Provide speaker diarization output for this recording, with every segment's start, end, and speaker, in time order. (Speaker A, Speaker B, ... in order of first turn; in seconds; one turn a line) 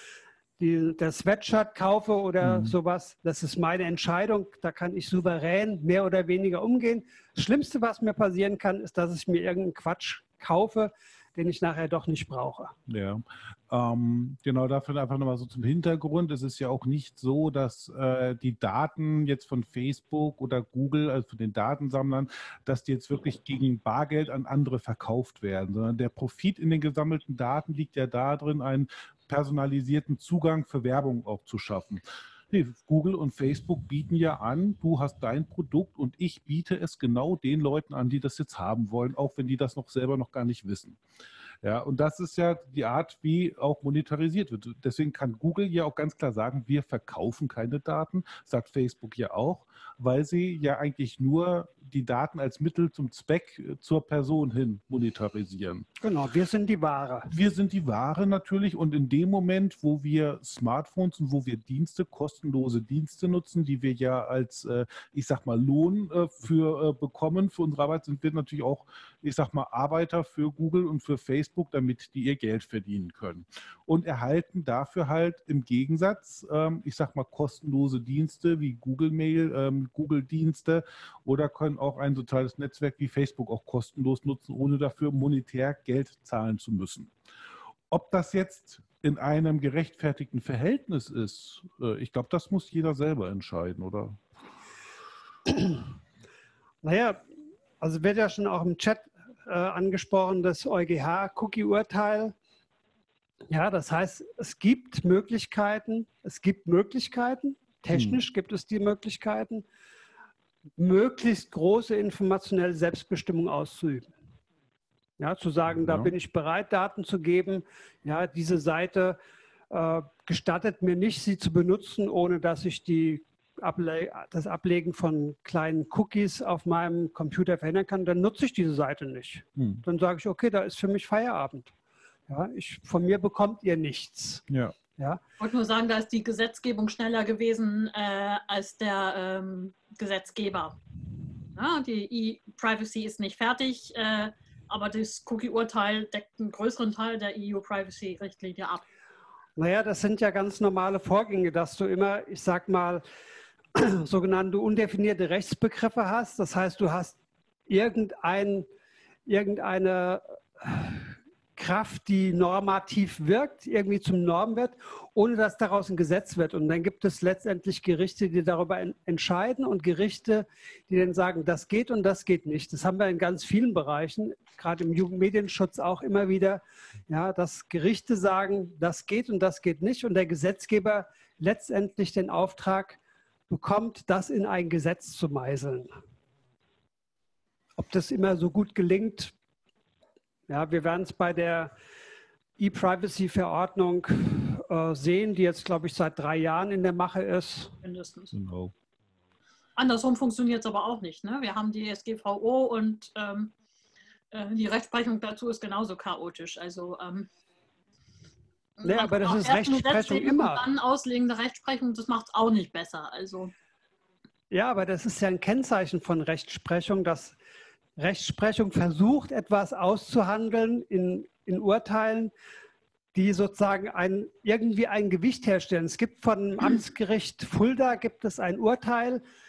Speaker A: 0.6-12.8
Speaker B: 2.4-2.7
Speaker B: 12.9-41.0
Speaker B: 41.6-55.9
Speaker A: 56.0-57.3
Speaker B: 57.3-87.1
Speaker B: 87.9-94.2
Speaker A: 95.5-95.8
Speaker A: 96.8-97.2
Speaker A: 97.8-102.3
Speaker A: 103.5-109.6
Speaker B: 107.9-108.2
Speaker A: 110.8-114.1
Speaker A: 115.2-119.2
Speaker B: 115.7-116.1
Speaker A: 119.7-131.7
Speaker B: 129.6-129.8
Speaker A: 132.3-134.4
Speaker B: 134.5-134.7
Speaker C: 135.4-140.8
Speaker C: 141.5-148.8
Speaker A: 149.6-153.0
Speaker A: 153.7-157.2
Speaker A: 157.7-158.7
Speaker A: 159.2-183.0
Speaker A: 183.5-185.9
Speaker A: 187.8-189.3
Speaker A: 190.5-191.7
Speaker A: 192.6-197.8
Speaker C: 197.8-198.3
Speaker B: 198.3-198.7
Speaker C: 199.8-203.5
Speaker C: 204.3-207.3
Speaker C: 208.8-213.5
Speaker A: 208.8-210.6
Speaker A: 214.5-217.3
Speaker A: 218.0-222.3
Speaker A: 223.1-229.2